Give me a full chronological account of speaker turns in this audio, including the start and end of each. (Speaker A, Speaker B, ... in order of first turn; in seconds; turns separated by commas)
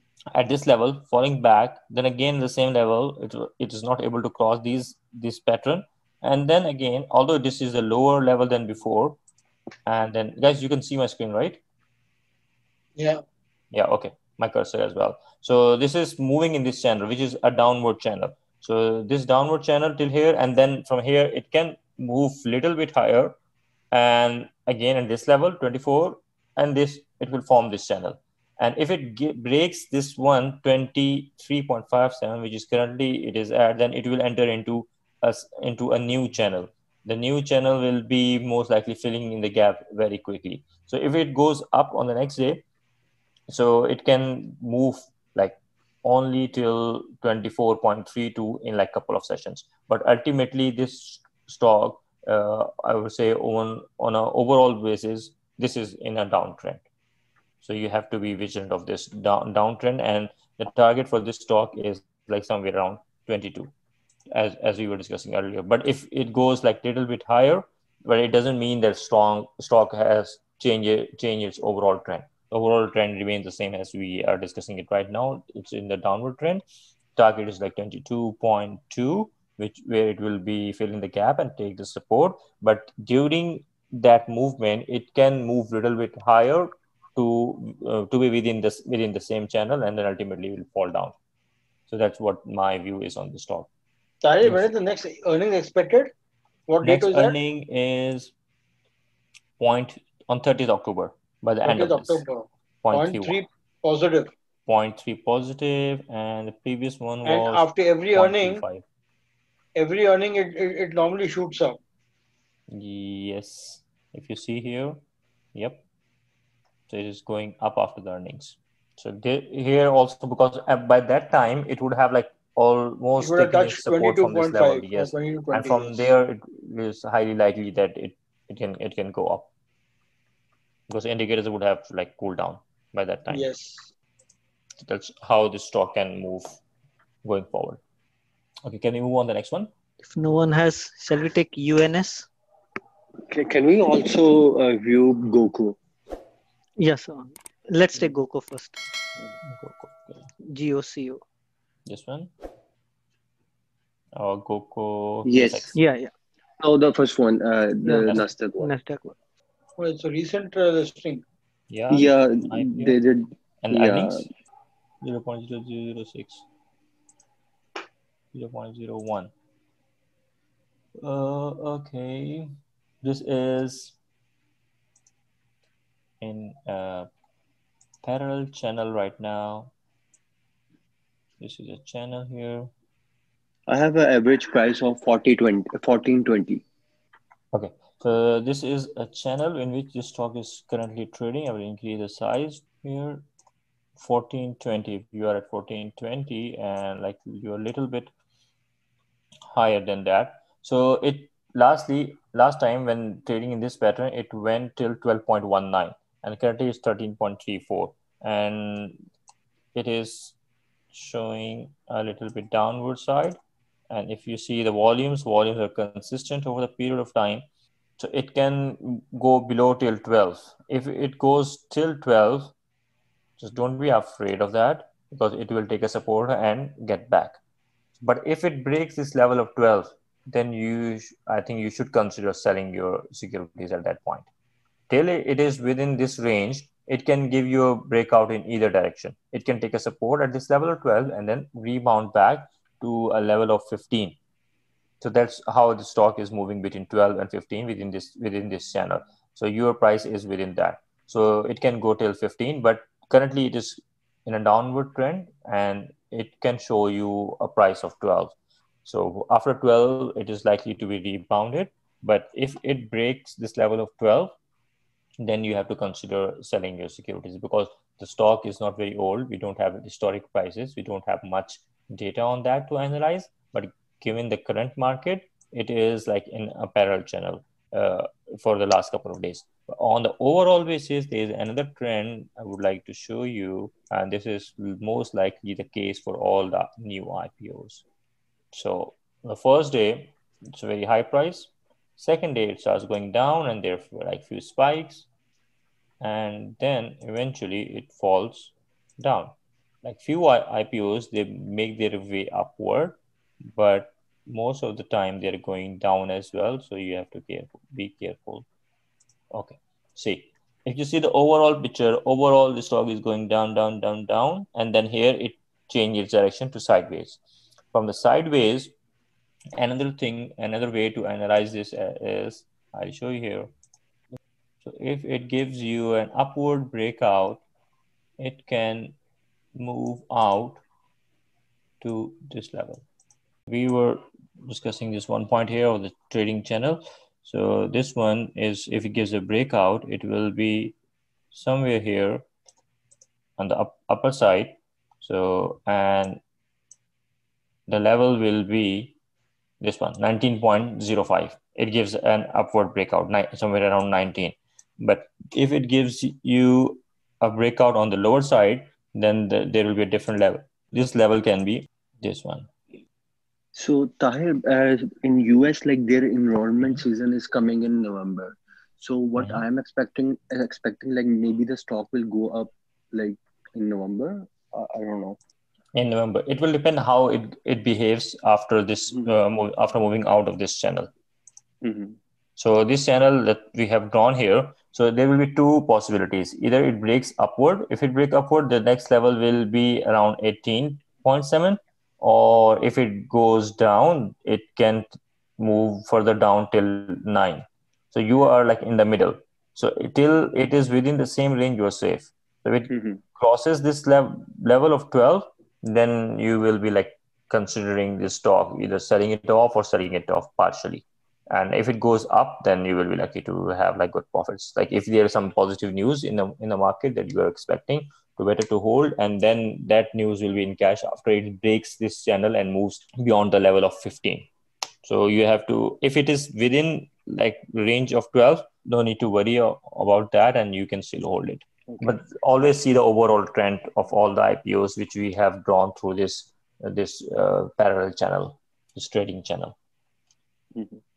Speaker A: 0.3-9.2, Speaker A: 9.9-11.6, Speaker B: 13.0-13.2, Speaker A: 13.7-23.4, Speaker A: 23.9-42.6, Speaker A: 43.5-56.8, Speaker A: 57.6-63.7, Speaker A: 64.3-76.6, Speaker A: 77.2-91.2, Speaker A: 91.9-93.7, Speaker B: 94.2-96.1, Speaker A: 94.4-94.7, Speaker B: 96.7-97.4, Speaker A: 96.8-98.3, Speaker A: 99.6-102.2, Speaker B: 101.7-104.3, Speaker A: 102.8-103.4, Speaker A: 104.7-108.8, Speaker B: 107.2-108.6, Speaker B: 109.8-111.8, Speaker A: 112.7-115.0, Speaker A: 115.5-115.8, Speaker A: 116.9-129.5, Speaker B: 123.2-126.1, Speaker A: 130.9-133.5, Speaker B: 133.3-133.9, Speaker A: 134.8-136.6, Speaker A: 137.2-137.8, Speaker A: 138.6-139.7, Speaker C: 140.0-142.3, Speaker D: 143.3-145.8, Speaker C: 146.8-148.8, Speaker A: 149.5-150.2, Speaker C: 150.5-151.2, Speaker A: 151.9-152.3, Speaker A: 154.2-155.7, Speaker D: 155.2-155.8, Speaker C: 155.8-156.1, Speaker D: 156.6-158.7, Speaker C: 157.8-159.2, Speaker B: 159.8-161.2, Speaker A: 161.7-163.0, Speaker D: 161.9-164.3, Speaker A: 163.6-164.3, Speaker A: 165.0-166.4, Speaker A: 168.3-169.3, Speaker A: 171.0-172.5, Speaker A: 173.0-174.0, Speaker A: 176.2-177.1, Speaker A: 178.0-179.7, Speaker A: 181.4-182.7, Speaker D: 183.7-186.6, Speaker A: 187.5-193.3, Speaker A: 194.0-198.1, Speaker A: 199.5-209.0, Speaker A: 209.7-210.4, Speaker A: 210.9-213.4, Speaker A: 213.9-217.5, Speaker A: 218.0-222.5, Speaker A: 223.4-227.4, Speaker A: 228.0-234.3, Speaker A: 234.9-244.2, Speaker A: 245.0-258.3, Speaker A: 258.9-264.4, Speaker A: 265.2-287.8, Speaker A: 288.5-295.1, Speaker A: 296.0-308.5, Speaker A: 309.3-317.2, Speaker A: 317.7-318.7, Speaker A: 319.6-323.5, Speaker A: 324.6-327.4, Speaker A: 328.2-329.0, Speaker A: 329.6-330.6, Speaker A: 331.8-332.8, Speaker A: 333.5-340.8, Speaker A: 341.3-342.3, Speaker A: 343.4-346.2, Speaker A: 347.7-349.0, Speaker A: 349.6-362.5, Speaker D: 363.6-375.2, Speaker A: 375.8-380.9, Speaker D: 381.6-382.0, Speaker A: 382.4-394.9, Speaker A: 395.4-424.3, Speaker D: 402.7-403.0, Speaker A: 424.8-439.6, Speaker D: 431.7-432.0